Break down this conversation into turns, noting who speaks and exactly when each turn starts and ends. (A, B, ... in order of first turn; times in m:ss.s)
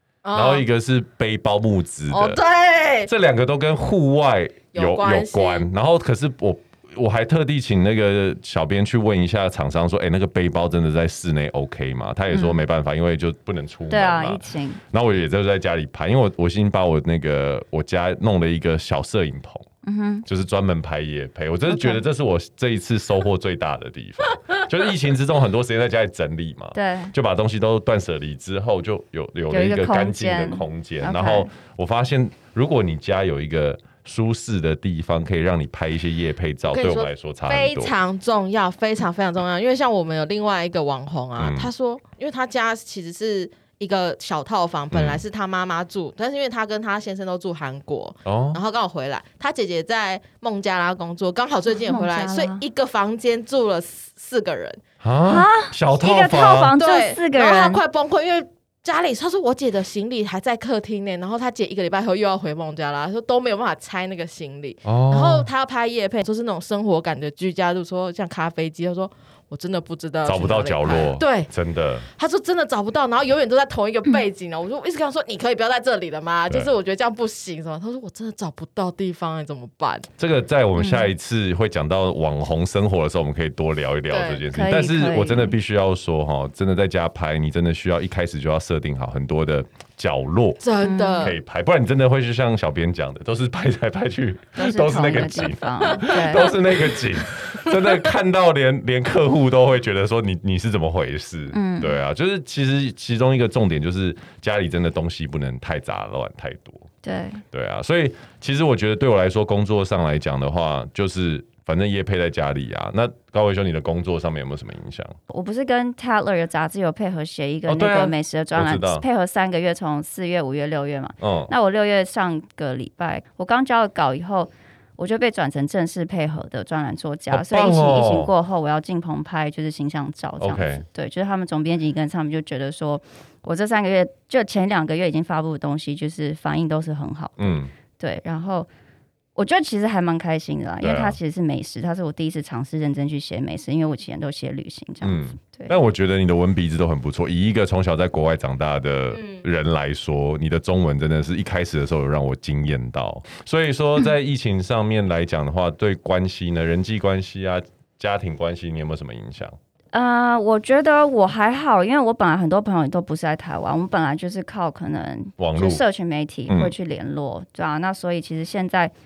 0:00.2-0:00.6 A
0:00.3-0:02.4 B
0:02.1-0:03.1 A
0:03.0-0:19.6 B
0:04.7-0:05.7 A
0:12.3-0:12.6 C
0:13.9-0:14.8 C
0:19.8-0:20.2 C
0:20.2-0:37.9 B
0:21.7-0:22.0 C
0:26.7-0:27.1 C
0:29.5-0:31.5 C
0:36.7-0:54.8 A
0:41.4-0:41.7 B
0:44.9-0:45.2 B
0:48.2-0:48.6 B
0:51.8-0:52.6 C
0:55.0-0:56.8 B
0:55.2-0:57.8 C
0:56.8-1:11.5 A
1:04.8-1:05.5 B
1:10.2-1:12.1 B
1:12.2-1:20.1 A
1:20.2-1:30.6 B
1:20.8-1:21.1 C
1:24.1-1:24.4 A
1:24.5-1:25.5 C
1:30.6-1:31.4 A
1:30.8-1:31.3 C
1:31.2-1:46.9 B
1:34.6-1:36.6 C
1:35.9-1:38.0 A
1:41.5-1:42.0 C
1:47.0-1:47.4 C
1:47.5-1:55.1 B
1:55.3-2:18.7 C
1:57.7-1:59.0 B
2:01.2-2:01.5 B
2:07.3-2:08.3 B
2:10.4-2:10.8 B
2:17.4-2:17.7 B
2:19.4-2:25.7 C
2:20.8-2:21.2 B
2:25.0-2:39.5 B
2:29.1-2:29.4 A
2:39.9-2:48.9 C
2:45.4-2:45.8 B
2:46.5-2:46.7 B